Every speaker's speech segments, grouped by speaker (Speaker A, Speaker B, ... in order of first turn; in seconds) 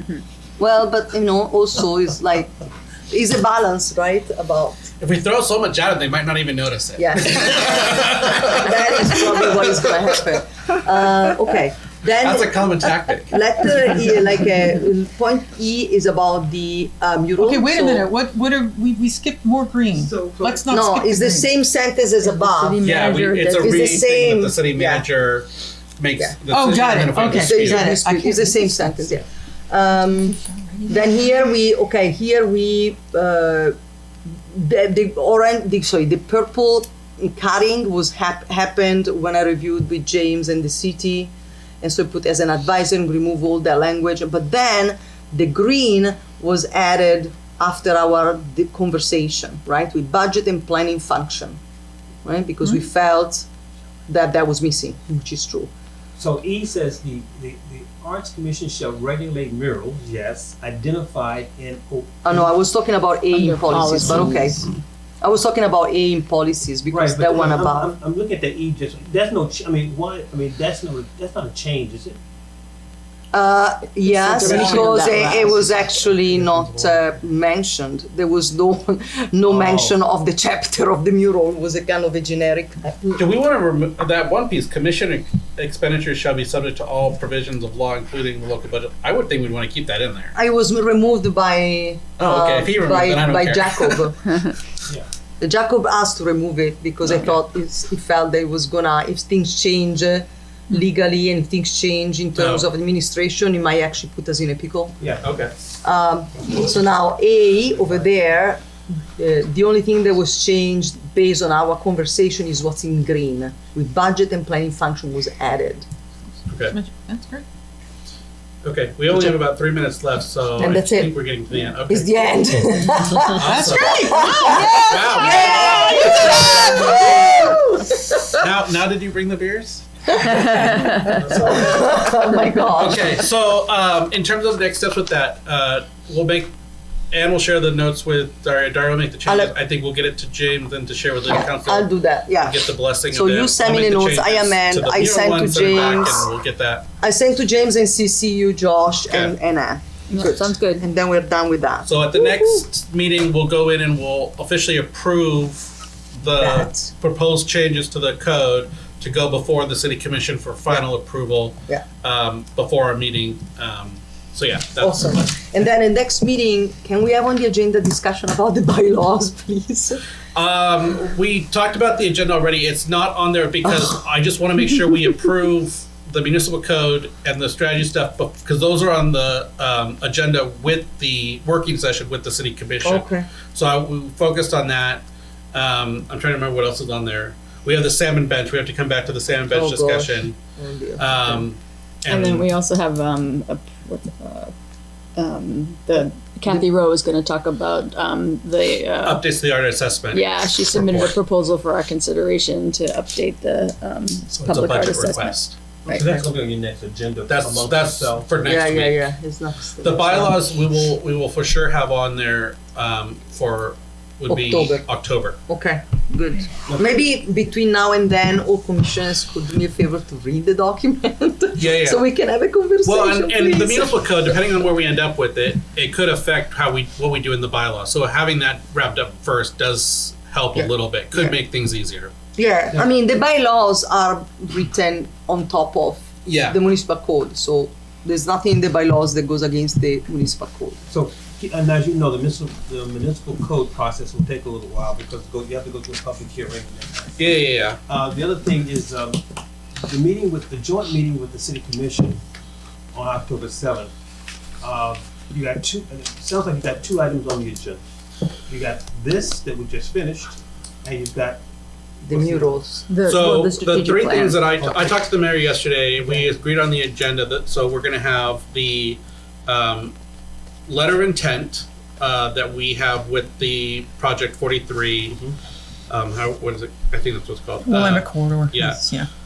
Speaker A: 0.6-2.5, 3.1-4.9, 7.0-18.1, 20.7-22.8, 23.6-25.1, 27.3-33.8, 34.5-51.6, 52.2-53.5, 54.1-55.7, 62.2-67.9, 73.3-83.2, 90.3-94.5, 95.4-105.0, 105.8-115.8, 120.6-128.3, 130.1-133.2, 139.3-139.5, 141.3-146.3, 147.0-152.4, 156.4-156.9, 164.8-170.0, 173.6-173.9, 182.8-183.3, 189.5-191.5, 205.9-206.2, 208.4-210.4, 214.3-214.8, 215.5-224.0, 230.6-231.3, 232.4-240.8, 262.1-262.9
Speaker B: 5.0-9.9, 12.2-13.4, 22.8-27.9, 83.2-90.3, 92.2-94.0, 102.4-102.6, 105.2-105.5, 116.5-116.8, 118.6-122.4, 123.3-127.4, 128.4-130.4, 131.1-131.8, 132.7-136.5, 137.1-146.9, 149.1-149.3, 151.8-165.1, 170.3-190.4, 191.0-192.5, 199.0-201.1, 204.3-205.6, 207.3-209.0, 209.8-215.4, 221.6-222.1, 222.8-232.1, 236.3-236.6, 247.2-247.8, 263.1-269.9, 270.7-275.1, 275.9-278.9
Speaker C: 17.4-21.5, 23.0-23.8, 26.5-29.2, 30.3-31.0, 116.6-117.4, 123.7-126.2, 277.6-279.1
Speaker D: 20.0-20.7, 56.2-62.5, 66.9-72.2, 74.7-75.0, 79.5-79.9, 205.8-208.4, 216.7-216.9, 240.9-247.3, 247.9-249.2, 249.9-252.2, 252.9-253.9, 254.6-257.8, 258.5-261.4, 262.0-262.6, 264.6-264.9, 275.1-275.3
Speaker E: 22.3-23.6, 63.3-64.6, 74.2-75.6, 130.6-131.1, 150.1-150.9, 192.1-194.5, 195.2-199.3, 200.1-206.2, 262.9-264.4